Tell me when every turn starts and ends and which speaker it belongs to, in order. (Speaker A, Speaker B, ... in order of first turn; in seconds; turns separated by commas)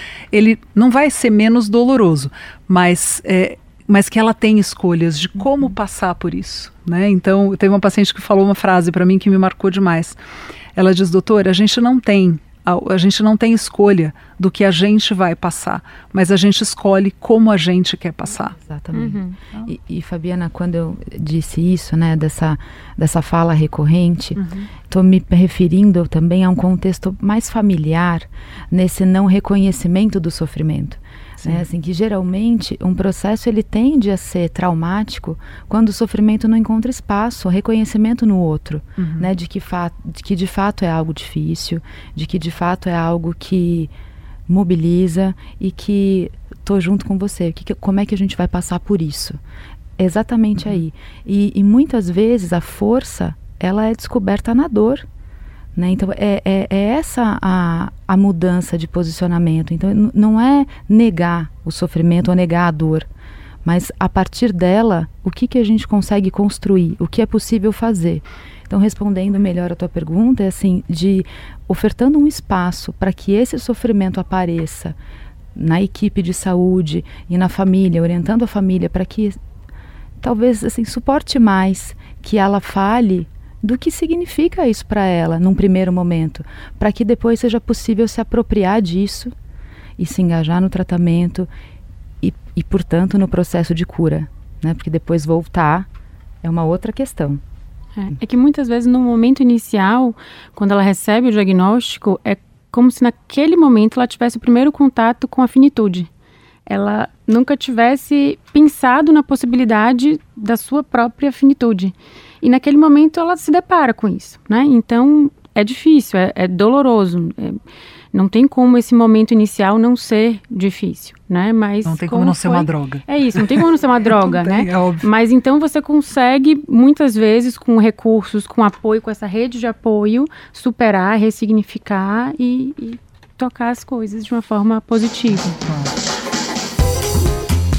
Speaker A: 0.3-10.2, Speaker A: 10.8-18.6, Speaker B: 18.6-43.9, Speaker C: 18.9-19.4, Speaker A: 39.0-39.3, Speaker B: 44.5-49.4, Speaker B: 50.0-55.0, Speaker B: 55.8-63.1, Speaker B: 63.6-74.9, Speaker B: 75.5-79.4, Speaker B: 80.2-89.3, Speaker B: 90.0-91.5, Speaker B: 92.2-95.9, Speaker B: 96.4-97.4, Speaker C: 98.0-106.1, Speaker C: 106.7-117.6, Speaker C: 118.1-135.6, Speaker A: 121.8-123.5, Speaker A: 124.1-125.0